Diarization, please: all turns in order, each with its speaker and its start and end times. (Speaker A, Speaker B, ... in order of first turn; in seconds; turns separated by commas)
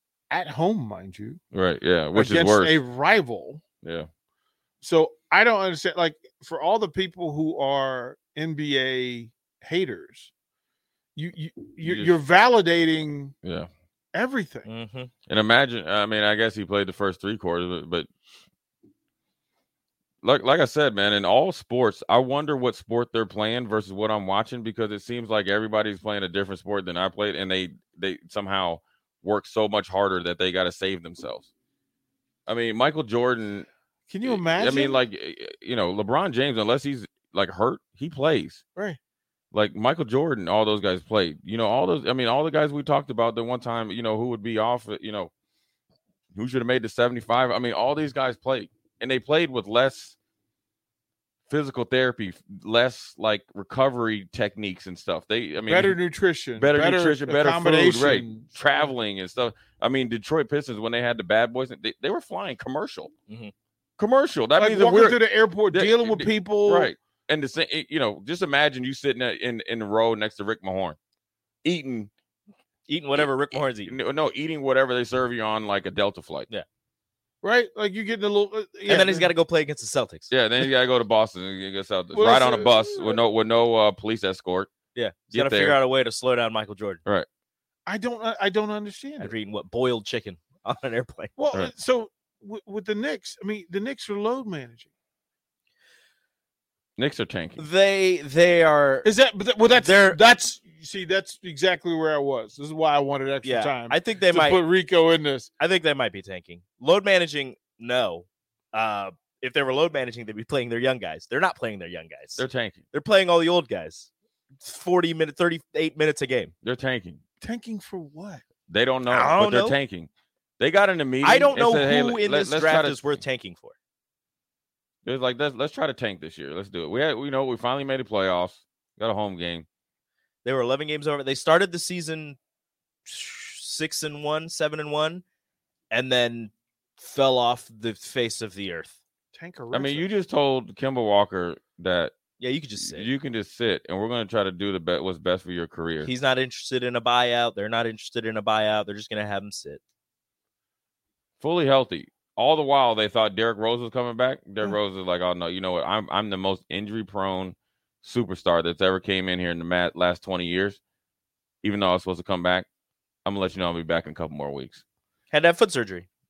Speaker A: 0.3-1.4, Speaker B: 1.5-2.8, Speaker A: 2.1-3.6, Speaker B: 3.8-4.1, Speaker A: 4.8-10.3, Speaker A: 11.2-13.3, Speaker B: 11.8-12.2, Speaker B: 13.4-13.7, Speaker A: 14.1-14.7, Speaker C: 14.6-15.1, Speaker B: 15.2-18.1, Speaker B: 20.2-31.5, Speaker B: 32.5-33.7, Speaker A: 34.1-35.0, Speaker B: 34.2-38.6, Speaker B: 39.5-45.3, Speaker B: 46.3-50.1, Speaker B: 51.5-56.0, Speaker A: 55.7-58.6, Speaker B: 56.5-63.1, Speaker B: 64.0-71.0, Speaker A: 64.5-66.9, Speaker B: 71.6-72.1, Speaker C: 72.9-73.9, Speaker B: 73.8-76.5, Speaker A: 77.4-79.3, Speaker C: 78.9-80.3, Speaker B: 80.3-84.7, Speaker A: 82.1-83.2, Speaker C: 84.9-87.0, Speaker B: 85.3-85.8, Speaker A: 87.8-89.3, Speaker C: 89.2-91.3, Speaker A: 91.4-94.9, Speaker B: 97.0-97.7, Speaker C: 97.6-100.3, Speaker A: 99.0-105.5, Speaker C: 103.4-104.7, Speaker C: 105.6-116.5, Speaker B: 112.4-112.8, Speaker B: 116.6-117.2, Speaker A: 117.4-118.4, Speaker B: 118.7-123.2, Speaker C: 119.1-119.8, Speaker C: 121.2-123.8, Speaker B: 125.0-129.7, Speaker C: 130.4-132.4, Speaker C: 133.1-135.2, Speaker C: 135.9-139.0, Speaker A: 139.3-140.1, Speaker B: 139.7-142.2, Speaker C: 142.4-143.1, Speaker B: 142.8-146.1, Speaker C: 146.0-149.8, Speaker B: 151.4-160.8, Speaker B: 161.6-162.7, Speaker B: 163.2-164.8, Speaker C: 165.3-166.1